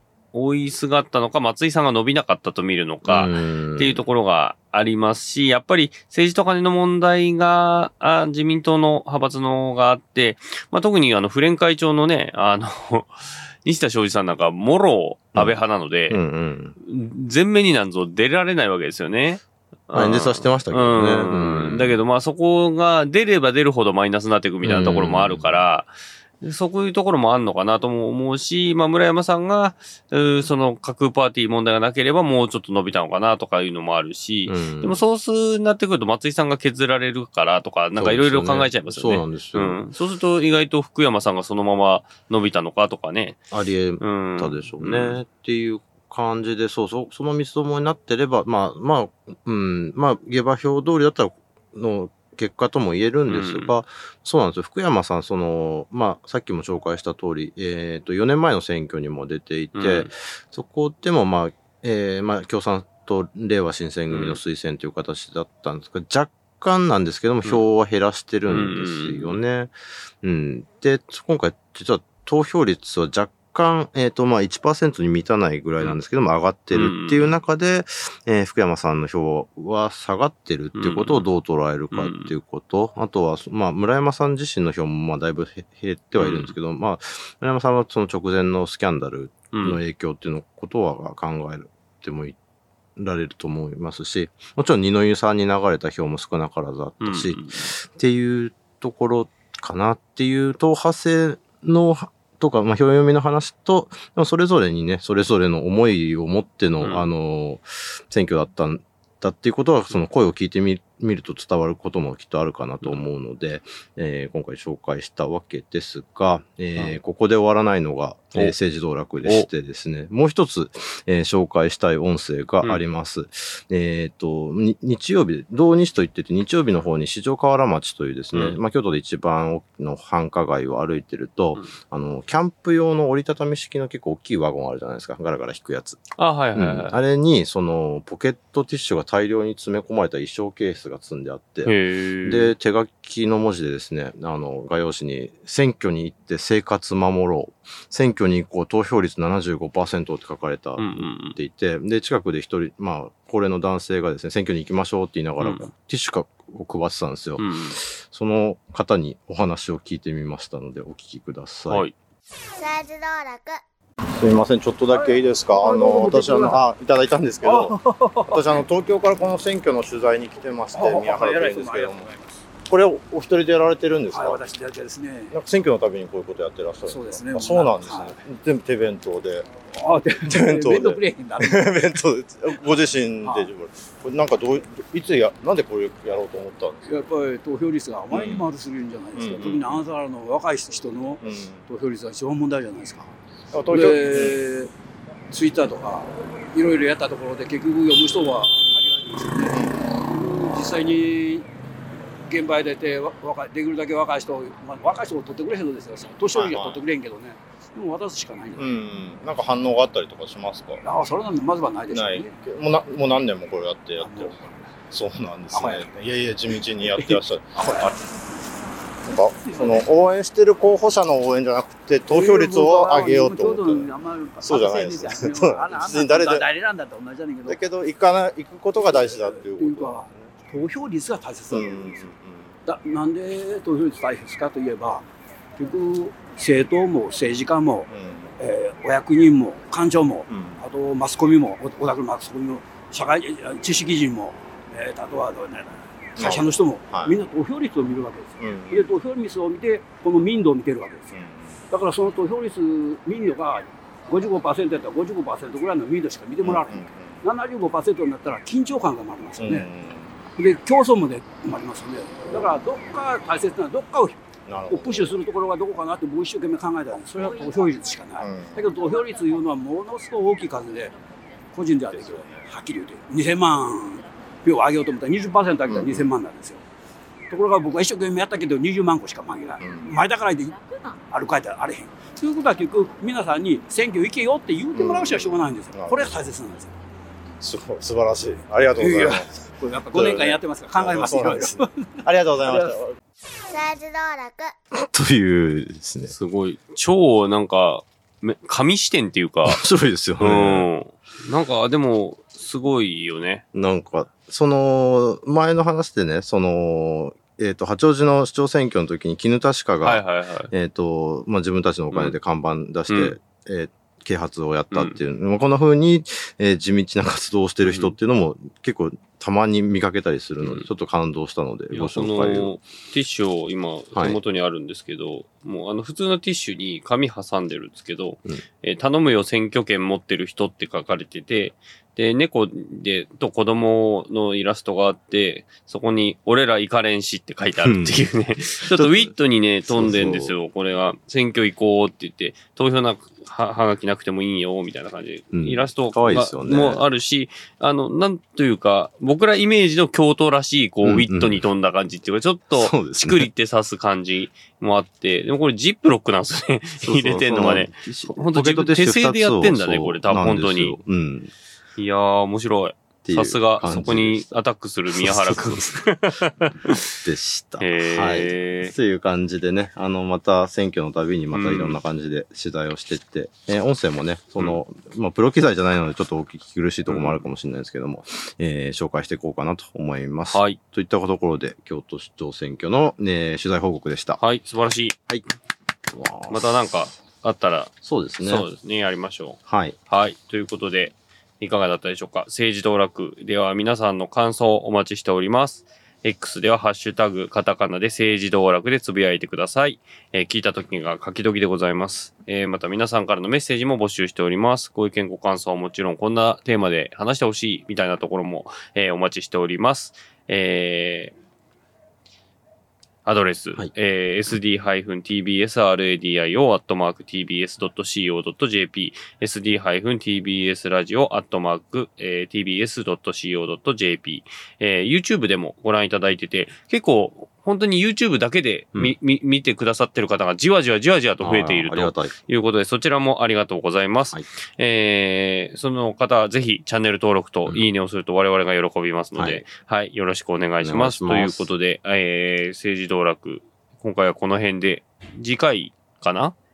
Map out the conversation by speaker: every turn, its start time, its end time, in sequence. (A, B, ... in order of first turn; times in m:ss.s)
0:00.3-0:16.2 A
0:03.0-0:04.0 B
0:16.1-0:16.8 B
0:16.8-0:43.4 A
0:19.9-0:22.0 B
0:24.6-0:25.6 B
0:34.4-0:35.0 B
0:38.0-0:39.8 B
0:43.5-1:32.4 B
0:44.0-0:45.2 A
0:53.3-0:53.7 A
0:59.7-1:00.1 A
1:04.1-1:04.4 A
1:08.5-1:09.4 A
1:16.7-1:17.4 A
1:20.8-1:21.3 A
1:21.9-1:22.3 A
1:26.2-1:26.5 A
1:29.5-1:29.8 A
1:33.0-2:16.0 B
1:37.0-1:37.7 A
1:46.8-1:47.1 A
1:59.2-1:59.5 A
2:08.3-2:08.6 A
2:16.2-2:16.9 A
2:16.5-2:21.7 B
2:21.6-2:22.5 A
2:22.2-2:41.8 B
2:30.8-2:31.4 A
2:35.4-2:35.7 A
2:37.4-2:37.8 A
2:41.7-2:41.9 A
2:42.6-2:43.6 C
2:44.1-2:52.1 B
2:44.9-2:46.6 D
2:47.4-2:48.6 D
2:50.7-2:52.3 D
2:52.6-2:54.4 B
2:54.1-2:55.3 D
2:55.3-2:59.5 B
2:56.8-2:58.2 D
2:59.7-3:02.0 D
3:00.3-3:06.8 B
3:02.5-3:03.5 D
3:06.8-3:13.1 D
3:08.1-3:08.4 B
3:09.1-3:09.8 B
3:11.2-3:11.6 B
3:13.5-3:14.4 B
3:13.7-3:14.7 D
3:15.3-3:21.5 D
3:19.5-3:19.8 B
3:22.3-3:28.7 D
3:26.3-3:26.8 B
3:28.5-3:30.8 B
3:30.8-3:32.4 D
3:31.9-3:37.9 B
3:34.0-3:34.4 D
3:35.5-3:35.8 D
3:36.5-3:38.0 D
3:39.0-3:43.9 B
3:39.1-3:39.9 D
3:42.1-3:47.6 D
3:44.4-3:46.4 B
3:47.5-3:50.1 B
3:48.8-3:52.1 D
3:51.5-3:52.5 B
3:52.6-3:55.0 D
3:55.6-4:11.1 D
3:57.9-3:58.3 B
4:00.3-4:00.6 B
4:06.2-4:07.2 B
4:08.4-4:08.9 B
4:11.1-4:11.5 B
4:11.7-4:19.7 D
4:16.4-4:17.2 B
4:19.4-4:20.2 B
4:20.4-4:30.9 D
4:24.4-4:25.2 B
4:28.2-4:28.6 B
4:31.5-4:36.6 D
4:31.9-4:32.4 B
4:35.7-4:36.1 B
4:37.3-4:46.7 D
4:39.6-4:39.9 B
4:44.7-4:46.2 B
4:47.4-4:53.0 B
4:48.7-4:52.8 D
4:53.5-4:54.5 C
4:54.8-4:56.1 B
4:56.1-4:59.6 A
4:59.4-5:00.7 B
5:00.2-5:03.4 A
5:03.5-5:22.5 B
5:09.8-5:10.5 A
5:12.9-5:13.1 A
5:17.6-5:17.9 A
5:20.4-5:20.7 A
5:21.7-6:00.8 A
5:37.6-5:38.0 B
5:38.6-5:40.3 B
5:45.3-5:46.8 B
5:50.8-5:51.4 B
5:52.5-5:53.3 B
5:56.8-6:01.3 B
6:01.8-6:06.8 A
6:03.0-6:04.3 B
6:04.9-6:05.8 B
6:07.0-6:24.2 B
6:07.6-6:08.7 A
6:11.3-6:11.8 A
6:16.9-6:17.2 A
6:20.3-6:20.6 A
6:24.2-6:25.0 A
6:25.9-6:26.7 B
6:26.3-6:51.1 A
6:27.8-6:28.5 B
6:29.4-6:29.8 B
6:53.0-7:26.3 A
7:11.2-7:12.2 B
7:19.2-7:19.4 B
7:20.6-7:21.5 B